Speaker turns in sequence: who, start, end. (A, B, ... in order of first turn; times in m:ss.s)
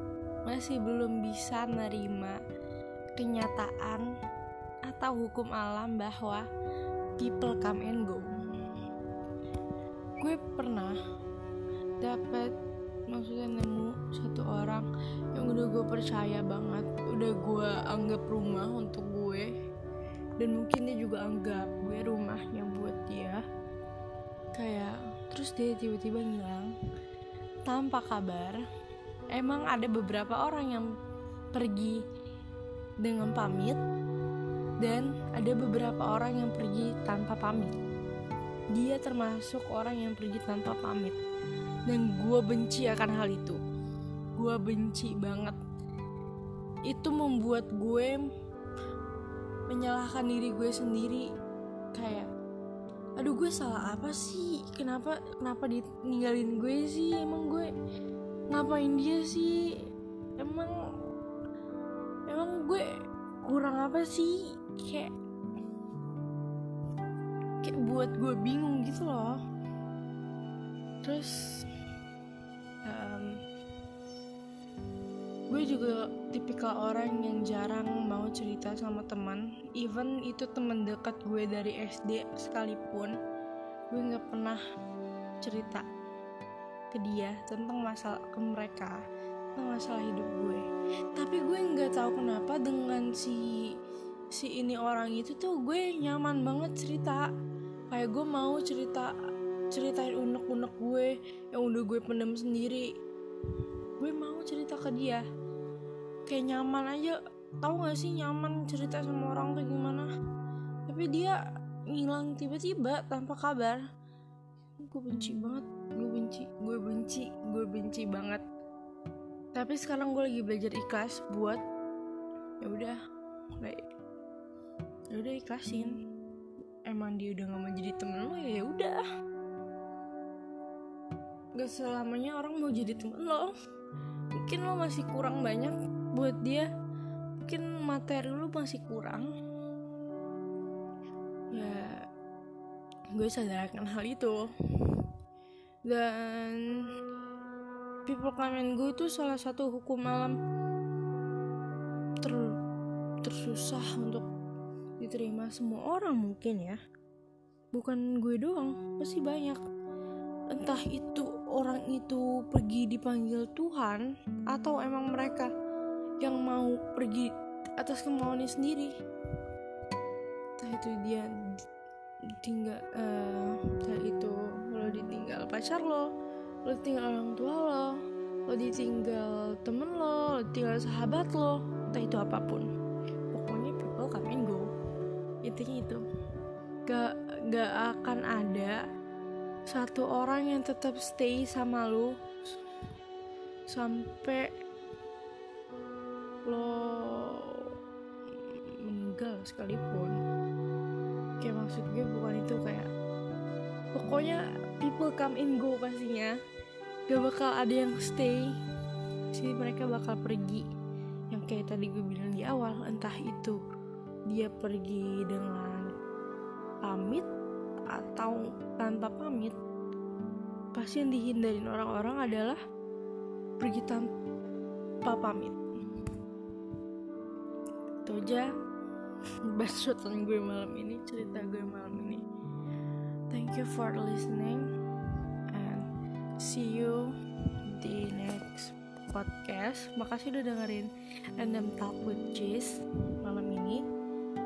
0:00.4-0:02.4 A
0:03.2-0:04.1 A
0:04.8-0:06.5 A
0:07.2-0:08.3 A
0:10.2-0:11.0 A
0:12.0-0:12.5 A
0:13.1-0:19.5 A
0:20.4-0:23.4 A
0:24.5-0:26.7 A
0:27.6-0:28.6 A
0:29.3-0:30.9 A
0:31.5-0:32.0 A
0:33.0-0:33.8 A
0:34.8-0:37.7 A
0:38.7-0:41.2 A
0:41.9-0:43.6 A
0:44.3-0:45.6 A
0:46.8-0:48.3 A
0:49.7-0:51.3 A
0:51.9-0:52.3 A
0:53.2-0:57.7 A
0:58.5-1:00.8 A
1:02.3-1:02.9 A
1:03.4-1:05.1 A
1:07.6-1:09.4 A
1:11.0-1:11.7 A
1:12.8-1:13.4 A
1:15.5-1:23.2 A
1:23.9-1:24.6 A
1:25.4-1:25.8 A
1:26.9-1:29.0 A
1:29.5-1:30.6 A
1:31.1-1:33.7 A
1:34.3-1:37.3 A
1:37.9-1:39.1 A
1:39.7-1:42.9 A
1:44.0-1:45.2 A
1:46.2-1:50.1 A
1:50.9-1:53.8 A
1:54.8-1:58.4 A
1:59.5-2:01.6 A
2:02.6-2:03.0 A
2:05.1-2:06.0 A
2:06.8-2:09.0 A
2:11.5-2:13.5 A
2:14.4-2:16.7 A
2:17.4-2:19.3 A
2:21.5-2:22.0 A
2:23.1-2:25.1 A
2:25.8-2:26.9 A
2:28.0-2:30.4 A
2:32.2-2:32.6 A
2:33.2-2:34.3 A
2:35.0-2:36.8 A
2:37.7-2:39.6 A
2:40.5-2:45.5 A
2:46.2-2:48.9 A
2:50.6-2:51.6 A
2:52.4-2:56.1 A
2:56.6-3:02.7 A
3:03.3-3:04.7 A
3:05.4-3:06.0 A
3:06.8-3:08.8 A
3:09.7-3:12.1 A
3:13.7-3:14.5 A
3:16.4-3:17.7 A
3:18.4-3:20.2 A
3:21.4-3:22.9 A
3:23.9-3:26.4 A
3:27.1-3:28.6 A
3:29.3-3:30.6 A
3:31.3-3:33.6 A
3:34.3-3:35.9 A
3:36.8-3:37.2 A
3:37.9-3:39.6 A
3:40.7-3:42.6 A
3:43.6-3:44.1 A
3:45.0-3:45.6 A
3:48.0-3:48.5 A
3:49.4-3:52.2 A
3:53.3-3:54.7 A
3:55.5-3:55.9 A
3:56.4-4:03.8 A